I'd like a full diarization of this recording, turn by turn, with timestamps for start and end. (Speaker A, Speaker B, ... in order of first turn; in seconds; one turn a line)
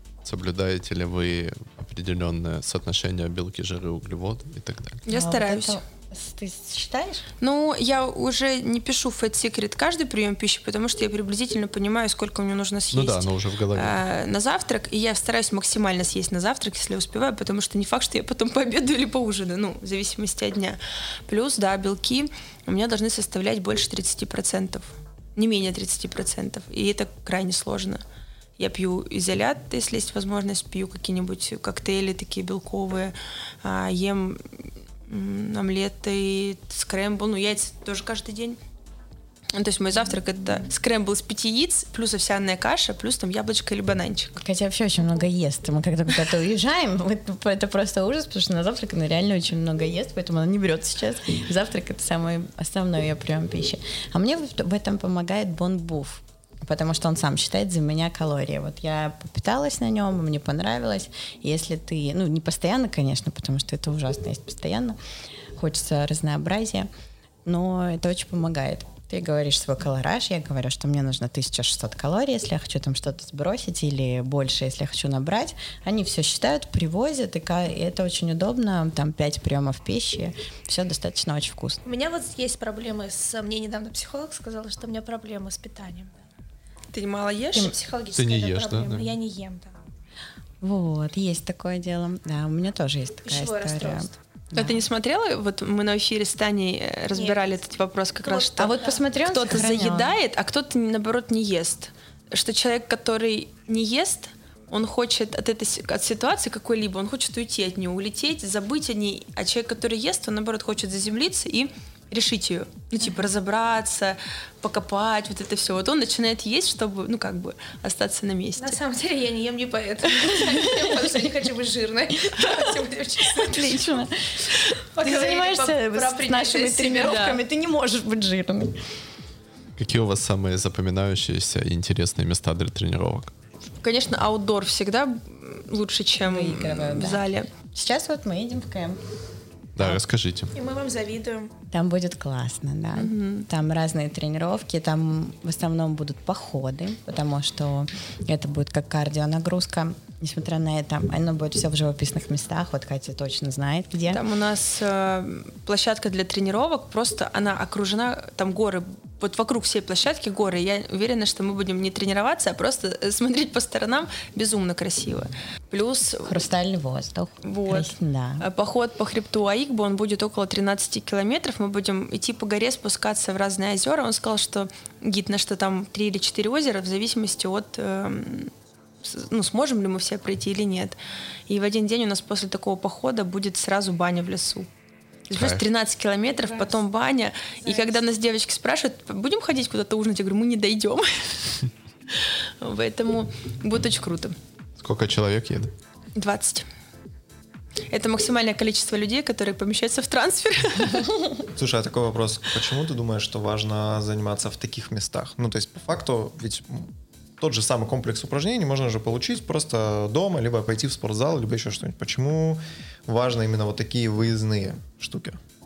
Speaker A: 0.2-5.0
Speaker B: 5.0-5.8
Speaker C: 5.1-7.2
Speaker B: 7.4-28.0
Speaker A: 12.9-14.0
Speaker B: 28.6-38.6
Speaker B: 39.5-44.4
Speaker C: 44.4-65.0
Speaker C: 65.5-66.9
Speaker C: 67.4-81.8
Speaker D: 81.8-86.2
Speaker B: 86.9-87.7
Speaker D: 87.5-89.8
Speaker A: 88.2-89.1
Speaker C: 90.6-94.8
Speaker D: 93.2-94.2
Speaker B: 94.5-118.8
Speaker D: 97.1-97.5
Speaker D: 98.2-99.0
Speaker C: 98.6-100.2
Speaker D: 118.6-123.9
Speaker C: 123.2-124.5
Speaker D: 124.7-127.4
Speaker C: 125.0-128.8
Speaker B: 127.0-127.4
Speaker A: 129.8-133.3
Speaker B: 133.8-137.5
Speaker C: 136.2-139.0
Speaker A: 139.8-140.5
Speaker D: 140.5-141.5
Speaker C: 141.7-154.2
Speaker B: 142.9-143.5
Speaker B: 154.1-166.3
Speaker C: 166.2-168.5
Speaker B: 167.4-178.5
Speaker B: 179.0-184.7
Speaker B: 185.3-194.3
Speaker A: 185.3-185.6
Speaker D: 186.3-186.8
Speaker D: 187.6-188.0
Speaker A: 194.8-195.7
Speaker B: 196.1-196.7
Speaker B: 197.9-201.1
Speaker E: 201.5-215.4